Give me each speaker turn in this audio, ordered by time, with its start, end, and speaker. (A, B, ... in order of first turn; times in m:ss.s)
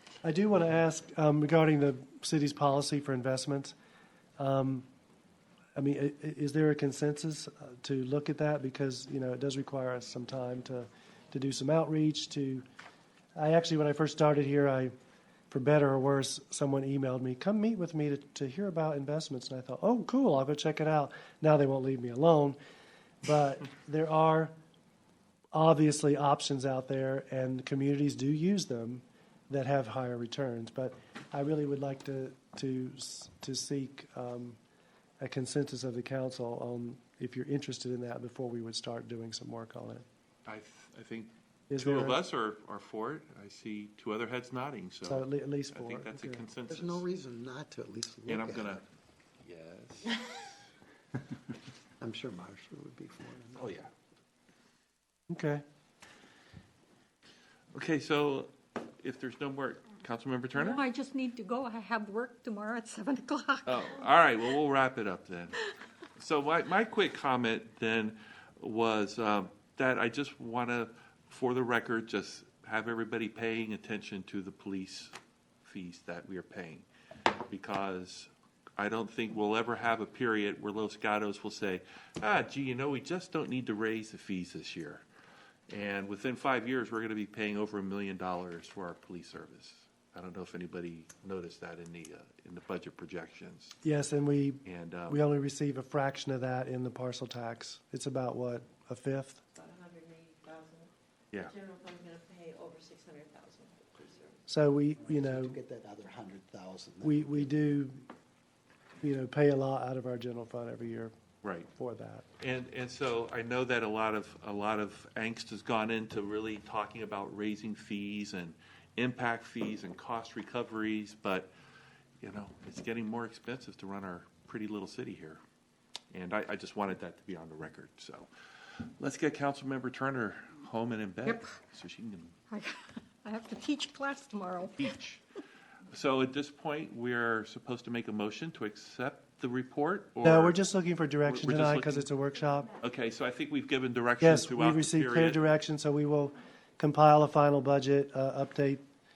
0:00.2-0:03.7 A
0:04.4-0:04.8 A
0:05.8-0:12.6 A
0:13.4-0:14.9 A
0:15.5-0:22.6 A
0:23.2-0:24.5 A
0:25.5-0:34.6 A
0:35.2-0:40.0 A
0:40.4-0:47.0 B
0:41.7-0:42.2 A
0:45.0-0:46.4 A
0:46.7-0:48.8 C
0:48.3-0:48.8 B
0:49.4-0:50.5 B
0:52.0-0:53.8 C
0:53.6-0:53.9 B
0:55.3-0:55.6 A
0:57.7-1:00.8 B
1:00.5-1:04.0 D
1:03.6-1:05.6 B
1:06.2-1:16.9 B
1:17.5-1:25.0 B
1:25.7-1:33.8 B
1:33.8-1:39.4 A
1:34.6-1:35.2 B
1:39.5-1:40.9 E
1:41.5-1:44.4 E
1:44.5-1:45.6 A
1:45.0-1:47.5 C
1:47.0-1:48.0 A
1:49.0-1:51.1 A
1:51.4-1:51.7 B
1:51.7-1:52.2 A
1:52.4-2:01.5 B
2:02.2-2:05.4 B
2:06.1-2:08.3 B
2:08.8-2:12.4 B
2:11.2-2:11.6 D
2:12.5-2:15.0 D
2:14.8-2:15.2 B
2:15.9-2:20.6 B
2:20.2-2:22.7 A
2:21.2-2:22.1 B
2:22.8-2:25.4 B
2:24.2-2:28.8 A